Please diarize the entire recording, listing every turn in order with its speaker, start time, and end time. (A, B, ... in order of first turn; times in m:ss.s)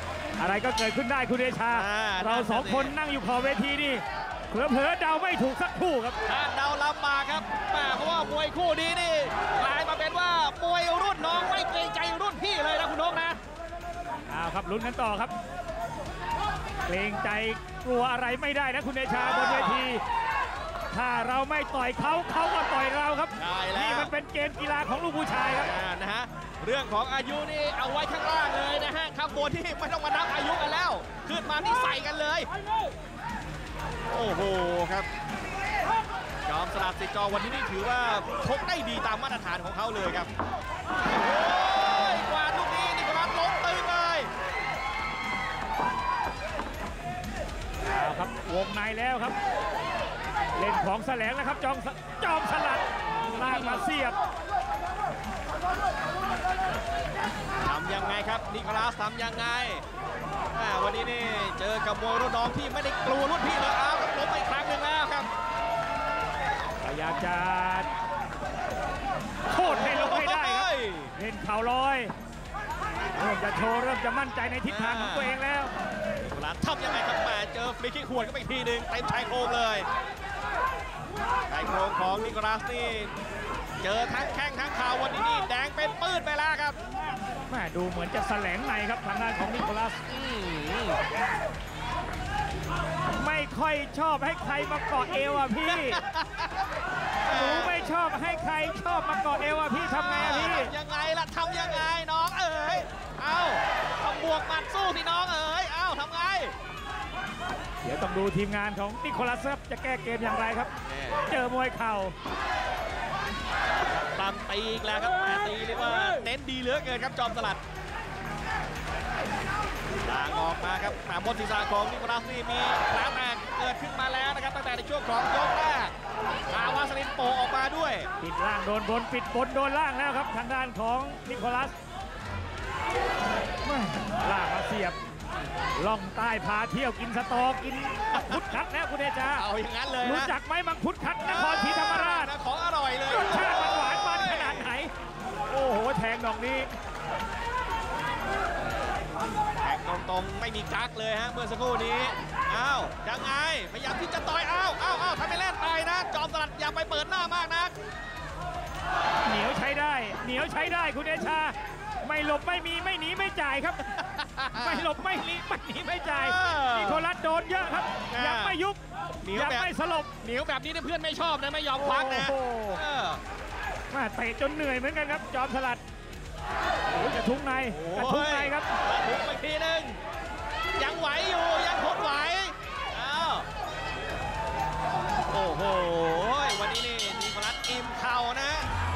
0:00.4-0:06.2 A
0:01.7-0:02.9 B
0:06.2-0:13.4 B
0:14.3-0:15.3 A
0:16.8-0:20.0 A
0:19.1-0:19.9 B
0:20.9-0:25.7 A
0:23.4-0:24.1 B
0:25.6-0:32.5 B
0:34.1-0:35.1 B
0:36.4-0:40.3 B
0:41.1-0:44.3 B
0:47.8-0:49.3 A
0:50.5-0:54.2 A
0:53.4-0:53.8 B
0:57.6-0:59.8 B
1:00.5-1:05.3 B
1:06.8-1:07.9 A
1:09.5-1:12.1 A
1:09.6-1:11.1 B
1:13.2-1:15.7 A
1:14.7-1:15.4 B
1:16.2-1:19.9 B
1:21.5-1:23.1 B
1:23.8-1:26.8 B
1:27.5-1:30.0 A
1:30.1-1:31.0 B
1:33.2-1:36.0 A
1:35.6-1:36.6 B
1:37.2-1:37.7 B
1:37.3-1:40.7 A
1:39.8-1:46.5 B
1:47.8-1:50.7 A
1:50.8-1:51.3 B
1:51.3-1:52.1 A
1:53.9-1:57.6 B
2:00.0-2:05.9 B
2:06.5-2:08.1 B
2:08.2-2:11.7 A
2:13.6-2:15.0 A
2:15.8-2:19.4 A
2:18.1-2:18.5 B
2:19.3-2:20.3 B
2:20.0-2:22.3 A
2:21.2-2:24.7 B
2:23.1-2:24.9 A
2:25.5-2:26.7 A
2:29.6-2:37.7 B
2:39.2-2:43.9 A
2:44.0-2:44.9 B
2:44.5-2:48.8 A
2:46.1-2:47.0 B
2:48.1-2:48.6 B
2:49.2-2:49.7 B
2:49.3-2:50.1 A
2:50.2-2:53.2 B
2:51.8-2:52.8 A
2:53.9-2:55.8 A
2:56.9-2:58.7 A
2:57.7-3:00.0 B
3:00.8-3:03.5 B
3:05.3-3:08.7 B